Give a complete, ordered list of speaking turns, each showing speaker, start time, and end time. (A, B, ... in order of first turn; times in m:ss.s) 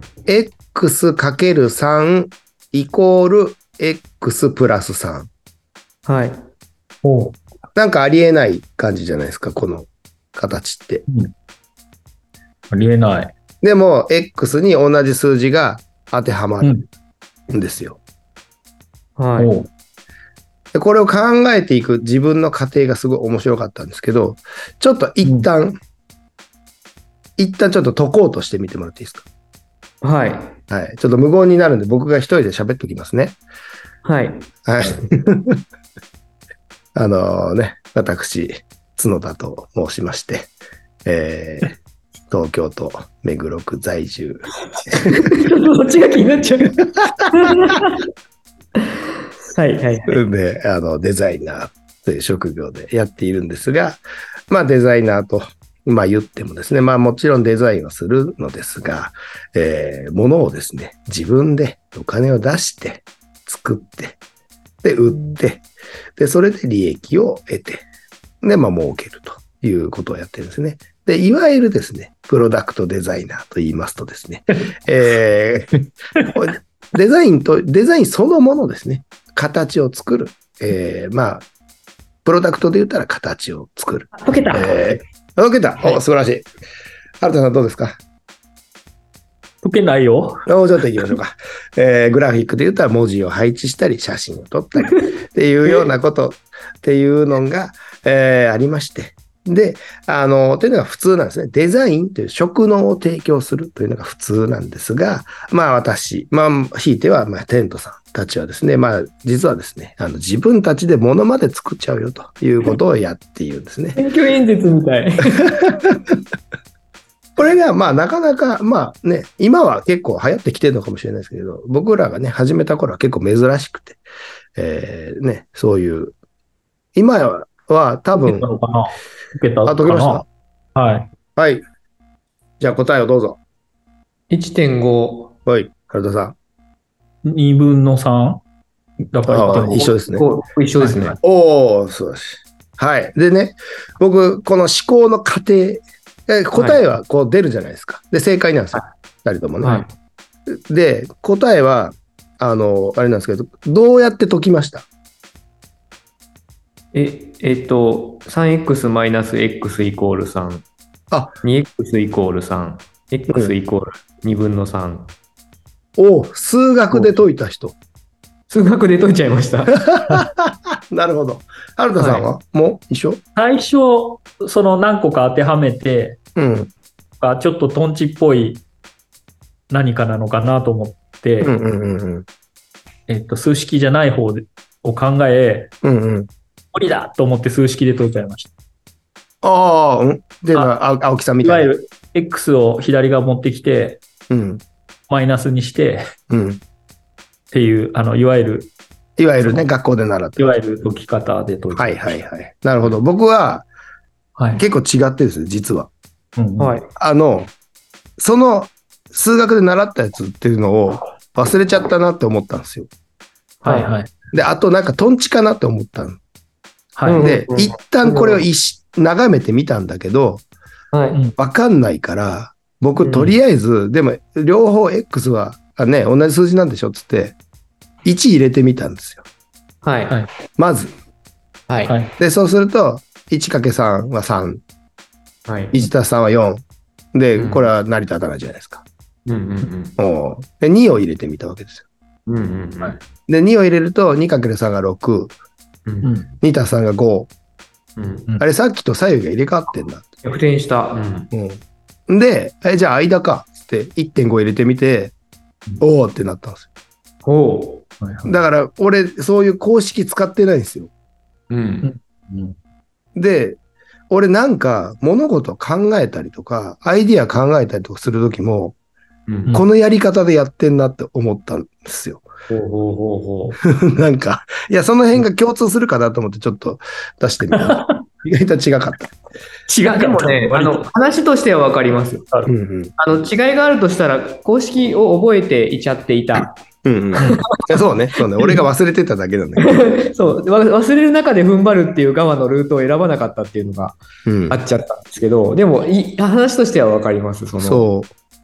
0:00.3-0:05.3 A
0:06.0-0:06.4 B
0:07.0-0:07.4 C
0:07.7-0:11.0 A
0:11.1-0:11.3 C
0:12.7-0:13.3 C
0:13.6-0:16.8 A
0:17.5-0:18.0 A
0:19.2-0:19.6 B
0:19.4-0:19.7 C
0:20.7-0:25.8 A
0:25.2-0:25.5 C
0:27.4-0:29.2 A
0:30.0-0:30.6 B
0:30.7-0:33.4 A
0:34.0-0:34.5 B
0:34.6-0:35.6 A
0:36.9-0:40.5 A
0:41.0-0:41.8 A
0:42.3-0:45.0 A
0:44.7-0:46.8 B
0:47.3-0:48.0 B
0:49.5-0:50.2 B
0:50.1-1:04.2 A
1:04.8-1:05.6 A
1:06.2-1:07.8 A
1:08.4-1:15.8 A
1:16.3-1:21.5 A
1:22.2-1:26.5 A
1:24.1-1:25.0 B
1:27.2-1:28.0 A
1:29.6-1:30.4 C
1:30.4-1:54.0 A
1:54.0-1:55.5 B
1:57.4-2:04.0 A
2:04.6-2:06.1 A
2:07.0-2:08.5 A
2:08.1-2:10.2 C
2:09.6-2:10.2 A
2:10.7-2:11.1 C
2:11.4-2:11.6 A
2:12.6-2:13.4 A
2:14.3-2:15.3 B
2:15.4-2:16.4 A
2:17.2-2:18.4 C
2:19.1-2:20.0 C
2:19.2-2:20.2 A
2:20.1-2:21.2 B
2:20.8-2:21.1 C
2:21.2-2:29.8 A
2:26.5-2:26.8 B
2:29.6-2:29.9 B
2:30.5-2:34.9 A
2:36.9-2:40.6 B
2:41.1-2:41.4 A
2:41.4-2:45.1 B
2:46.0-2:47.8 A
2:46.9-2:47.2 C
2:48.5-2:49.8 B
2:49.9-2:53.2 A
2:52.0-2:52.3 B
2:53.4-2:56.2 C
2:56.4-2:56.7 A
2:57.2-2:58.6 C
2:59.7-3:01.5 C
3:01.4-3:02.2 A
3:03.1-3:05.7 C
3:05.8-3:06.3 A
3:06.7-3:08.5 C
3:09.4-3:11.7 A
3:11.4-3:14.0 C
3:14.3-3:14.6 A
3:15.1-3:16.0 C
3:16.3-3:16.6 A
3:17.5-3:18.7 C
3:19.2-3:20.6 A
3:19.4-3:19.7 C
3:20.4-3:22.2 C
3:21.7-3:23.7 A
3:24.4-3:24.6 C
3:24.6-3:25.9 A
3:26.4-3:26.7 C
3:26.6-3:26.9 B
3:27.0-3:27.5 A
3:28.2-3:32.9 A
3:33.6-3:34.1 C
3:33.6-3:33.9 B
3:34.3-3:36.2 A
3:37.0-3:37.2 C
3:37.0-3:38.4 B
3:37.1-3:40.4 A
3:40.9-3:41.2 B
3:41.4-3:47.4 A
3:43.0-3:43.4 B
3:48.0-3:49.2 A
3:49.8-3:50.2 B
3:50.6-3:50.9 A
3:51.7-3:51.9 B
3:51.8-3:52.1 C
3:52.2-3:54.6 A
3:55.4-3:55.8 B
3:55.7-3:58.8 A
3:57.4-3:57.7 B
3:59.2-4:00.0 B
4:00.0-4:01.8 A
4:02.3-4:03.0 B
4:03.3-4:05.4 A
4:05.8-4:06.1 B
4:06.0-4:06.3 C
4:06.4-4:07.3 A
4:08.0-4:08.2 B
4:08.4-4:10.1 A
4:10.2-4:11.3 B
4:11.3-4:15.1 A
4:15.8-4:16.7 A
4:17.2-4:17.9 B
4:18.0-4:18.4 C
4:18.2-4:20.9 A
4:21.5-4:21.9 B
4:21.8-4:22.5 C
4:23.2-4:23.6 A
4:24.1-4:28.8 A
4:29.3-4:29.5 B
4:29.5-4:32.2 A
4:32.5-4:33.6 B
4:33.6-4:39.1 A
4:37.5-4:37.9 C
4:39.7-4:42.2 B
4:39.8-4:40.8 C
4:42.5-4:42.9 A
4:43.0-4:46.6 B
4:46.8-4:49.8 A
4:47.2-4:47.6 B
4:49.6-4:57.9 B
4:54.2-4:54.6 A
4:57.6-4:58.1 A